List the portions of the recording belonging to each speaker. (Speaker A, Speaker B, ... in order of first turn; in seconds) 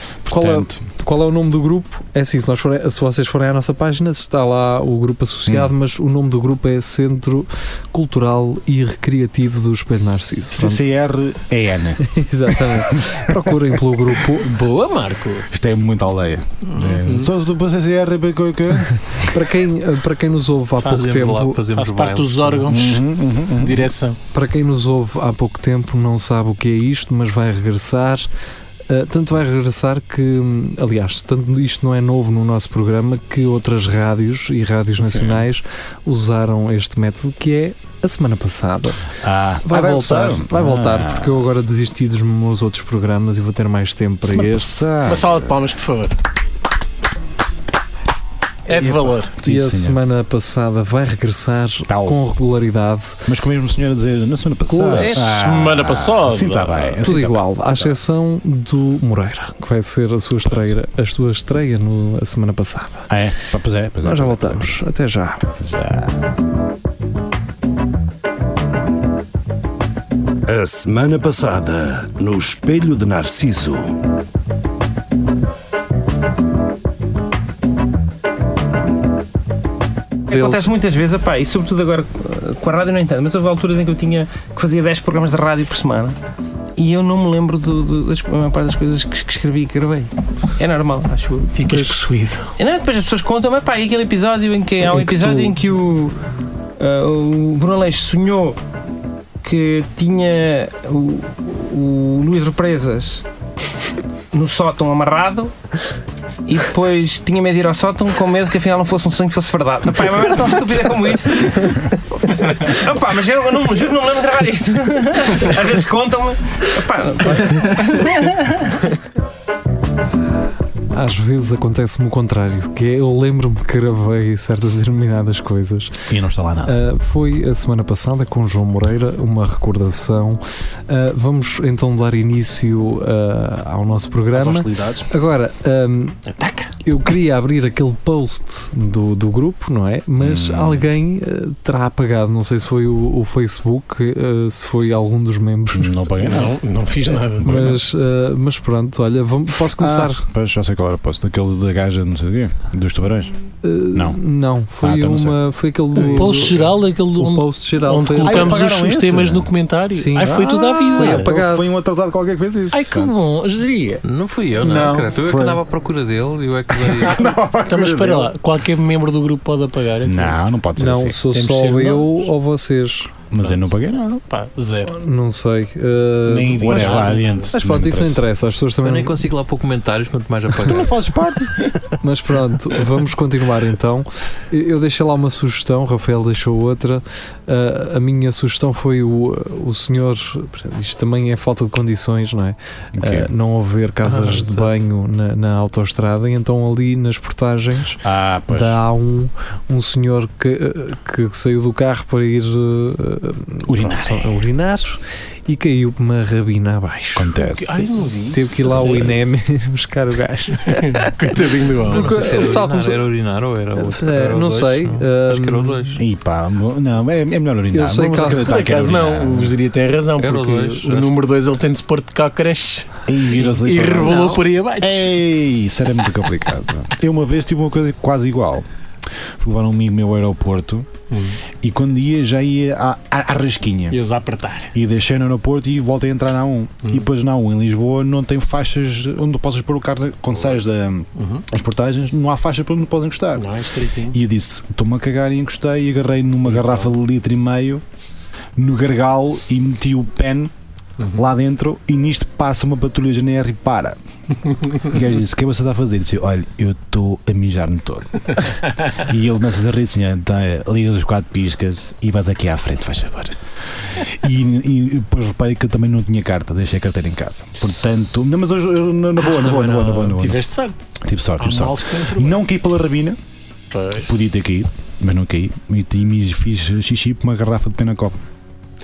Speaker A: 0.2-0.8, 10.5-13.8, 15.5-19.4, 22.7-23.9, 35.0-35.4, 39.2-41.4, 44.2-45.5, 49.4-50.0, 51.9-52.2, 53.3-58.0, 63.1-64.8, 65.6-66.3, 126.1-126.8, 134.3-135.1, 140.2-140.8, 145.7-146.6, 147.4-147.8, 149.5-153.3, 153.9-154.2, 154.8-155.4, 155.9-156.5, 158.2-159.5, 160.2-163.2, 164.6-165.6, 166.7-168.3, 170.0-171.2, 173.3-174.2, 176.5-178.2, 180.7-181.7, 193.0-193.3, 198.0-198.8, 203.7-204.4, 207.2-209.2, 216.0-219.6, 223.1-230.9, 231.6-234.0, 234.7-243.5, 244.1-247.8, 248.6-250.5, 251.1-254.0, 254.8-258.4, 258.9-263.4, 263.9-270.4, 271.0-273.2, 274.0-278.2
Speaker B: 0.3-10.9, 12.0-14.5, 19.1-21.6, 24.3-28.3, 28.9-39.0, 39.6-44.8, 48.7-53.2, 54.7-55.2, 57.0-63.2, 64.0-65.5, 80.3-80.7, 94.9-95.5, 120.9-126.0, 126.7-136.2, 136.8-146.4, 147.4-150.2, 153.6-158.6, 159.9-161.7, 170.8-173.1, 174.9-179.2, 182.0-207.3, 208.3-210.9, 211.8-213.0, 213.8-216.0, 217.7-218.5, 224.0-224.4
Speaker C: 14.4-15.5, 16.7-17.3, 21.7-24.2, 45.0-46.2, 48.7-49.4, 54.9-57.0, 91.5-92.5, 136.3-136.7, 146.2-147.7, 156.2-161.3, 162.7-164.0, 167.7-170.4, 171.3-172.3, 173.4-173.7, 174.3-174.9, 176.3-177.5, 207.4-209.2, 210.7-212.3, 218.2-225.1, 231.1-231.4, 233.9-234.7, 241.2-241.4, 243.3-244.2, 246.5-246.9, 269.2-270.8, 271.4-272.4, 273.7-274.1
Speaker D: 20.8-22.9, 164.0-167.3, 178.8-181.0, 194.1-194.8, 211.8-216.0, 220.2-221.1
Speaker E: 70.5-73.9
Speaker F: 80.3-86.2, 86.8-91.8, 92.6-96.2, 96.8-98.6, 99.4-103.2, 104.3-105.5, 106.5-118.9